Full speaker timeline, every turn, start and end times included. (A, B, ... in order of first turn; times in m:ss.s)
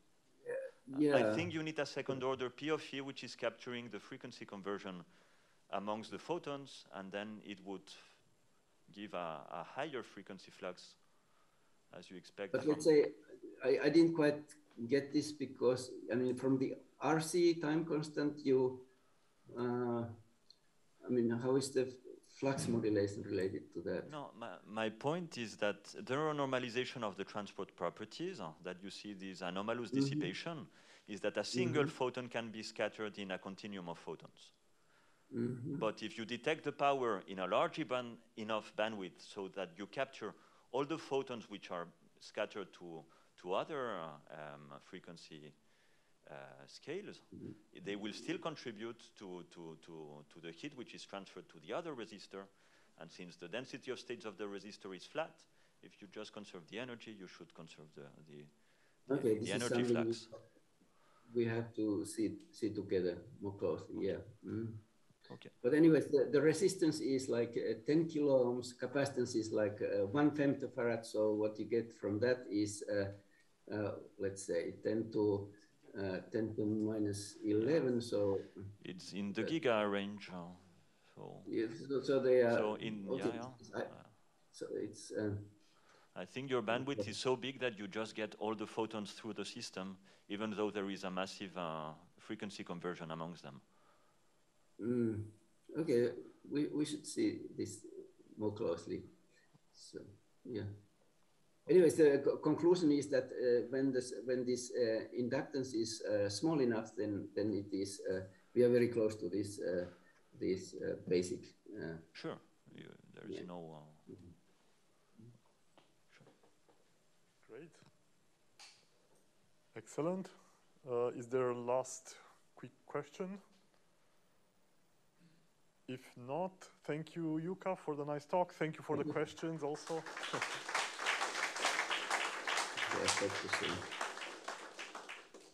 0:00.4-0:01.5 A
0:00.9-0:05.0 B
0:05.7-0:08.2 B
0:08.9-0:11.1 B
0:11.9-0:12.9 B
0:12.5-0:18.8 A
0:19.5-0:20.2 A
0:21.0-0:24.1 A
0:24.1-0:34.5 B
0:29.9-0:30.3 A
0:31.5-0:31.9 A
0:35.3-0:35.8 A
0:35.8-0:45.6 B
0:46.2-0:58.5 B
0:59.1-1:00.3 B
0:59.1-1:00.4 A
1:01.3-1:04.8 A
1:05.3-1:05.5 B
1:05.6-1:13.1 A
1:13.7-1:18.7 A
1:18.8-1:21.5 B
1:21.4-1:25.5 A
1:22.5-1:24.2 B
1:26.1-1:33.6 B
1:26.7-1:27.1 A
1:34.8-1:39.1 A
1:39.7-1:40.7 A
1:41.6-1:52.0 A
1:52.1-1:54.1 B
1:57.4-1:57.8 C
1:59.7-2:03.4 C
2:05.8-2:10.6 C
2:12.8-2:13.8 A